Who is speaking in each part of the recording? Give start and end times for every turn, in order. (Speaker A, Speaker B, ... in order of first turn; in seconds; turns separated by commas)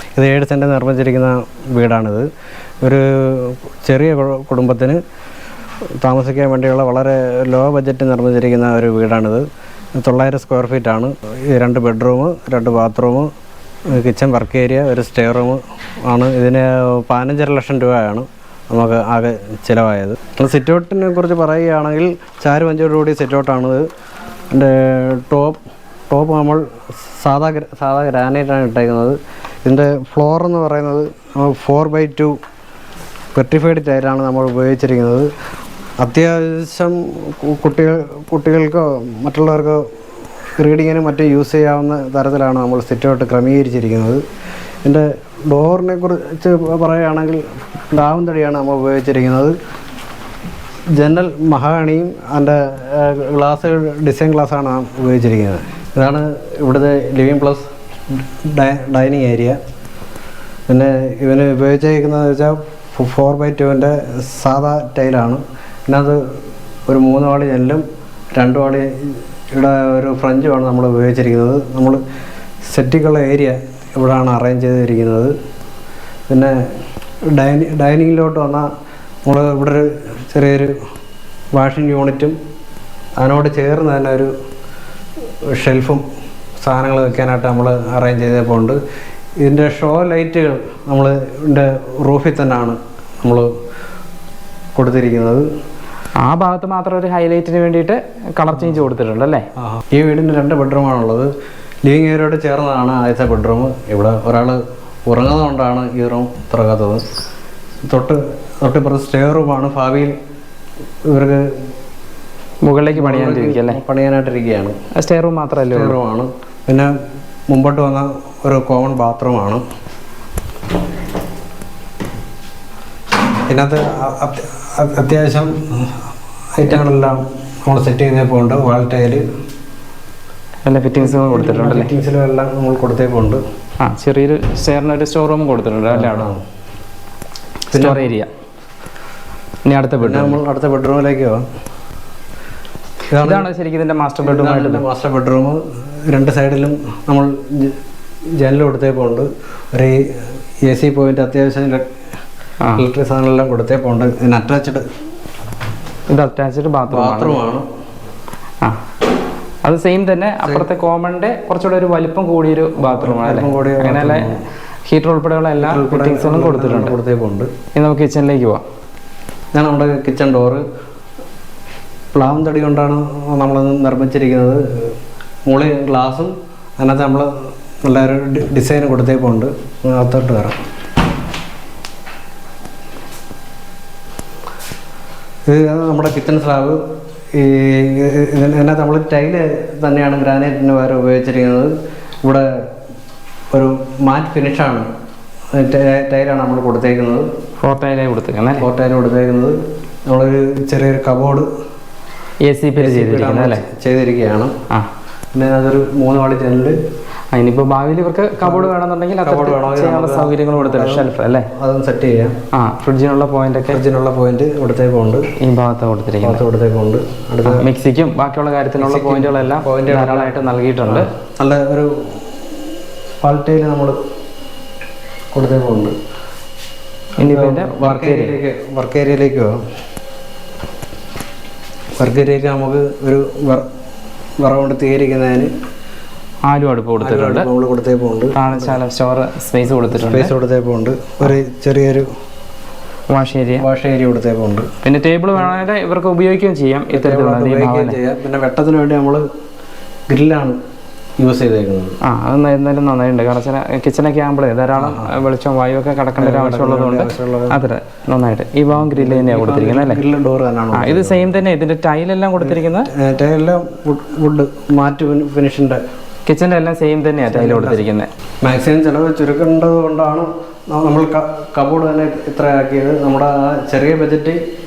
Speaker A: 0.2-2.3, Speaker A: 2.8-5.0, Speaker A: 6.0-9.4, Speaker A: 10.0-13.3, Speaker A: 13.9-23.9, Speaker A: 24.5-25.6, Speaker A: 26.1-32.4, Speaker A: 33.4-35.3, Speaker A: 36.0-39.8, Speaker A: 40.6-44.2, Speaker A: 44.9-49.5, Speaker A: 51.0-57.7, Speaker A: 58.5-59.6, Speaker A: 60.7-66.2, Speaker A: 66.9-67.8, Speaker A: 68.4-72.0, Speaker A: 72.7-75.3, Speaker A: 76.3-76.6, Speaker A: 77.3-78.7, Speaker A: 79.3-80.8, Speaker A: 81.6-82.4, Speaker A: 83.2-84.3, Speaker A: 85.5-86.0, Speaker A: 86.6-88.8, Speaker A: 89.4-93.5, Speaker A: 94.8-95.5, Speaker B: 96.2-99.5, Speaker A: 99.6-101.3, Speaker A: 101.8-107.0, Speaker A: 107.9-110.2, Speaker A: 111.1-111.5, Speaker B: 112.6-113.8, Speaker A: 112.9-114.8, Speaker B: 115.0-116.0, Speaker A: 115.7-116.9, Speaker A: 117.5-119.6, Speaker A: 123.5-126.0, Speaker A: 126.6-129.2, Speaker B: 130.7-131.9, Speaker A: 131.0-133.4, Speaker B: 133.8-136.3, Speaker A: 135.9-136.4, Speaker A: 137.7-138.1, Speaker B: 137.7-138.3, Speaker B: 139.7-140.4, Speaker A: 140.0-141.4, Speaker A: 143.1-143.5, Speaker B: 143.2-144.8, Speaker A: 144.2-147.8, Speaker A: 148.4-150.0, Speaker A: 150.7-151.8, Speaker A: 152.8-154.8, Speaker B: 156.1-157.4, Speaker A: 156.9-157.7, Speaker B: 159.6-164.4, Speaker A: 160.4-160.7, Speaker A: 162.8-164.4, Speaker B: 164.9-167.0, Speaker A: 165.6-167.5, Speaker B: 167.8-168.6, Speaker A: 169.6-170.6, Speaker A: 172.2-174.9, Speaker A: 175.5-177.3, Speaker A: 177.8-180.6, Speaker A: 185.5-186.8, Speaker A: 187.3-191.7, Speaker A: 193.5-194.9, Speaker A: 195.5-197.3, Speaker B: 197.6-198.7, Speaker A: 198.6-199.6, Speaker A: 200.1-201.5, Speaker B: 202.4-203.6, Speaker A: 202.8-204.5, Speaker A: 205.3-206.8, Speaker B: 207.3-211.5, Speaker A: 208.4-212.3, Speaker B: 212.5-213.8, Speaker A: 213.7-215.2, Speaker B: 215.4-216.4, Speaker A: 216.2-217.7, Speaker B: 217.4-221.1, Speaker A: 218.8-221.9, Speaker A: 223.2-224.0, Speaker A: 225.3-225.9, Speaker B: 227.2-228.4, Speaker A: 227.2-229.6, Speaker A: 232.0-233.7, Speaker A: 234.4-235.5, Speaker B: 236.5-237.5, Speaker A: 237.0-238.8, Speaker B: 238.4-240.3, Speaker A: 239.9-242.1, Speaker B: 243.1-243.7, Speaker A: 243.6-244.7, Speaker B: 244.8-248.0, Speaker A: 246.9-249.2, Speaker A: 250.1-250.6, Speaker A: 251.2-252.0, Speaker B: 252.0-260.0, Speaker A: 254.8-255.1, Speaker A: 256.2-257.6, Speaker A: 258.9-261.4, Speaker B: 260.7-262.9, Speaker A: 262.4-265.8, Speaker B: 266.3-268.1, Speaker A: 267.3-267.9, Speaker A: 268.4-274.4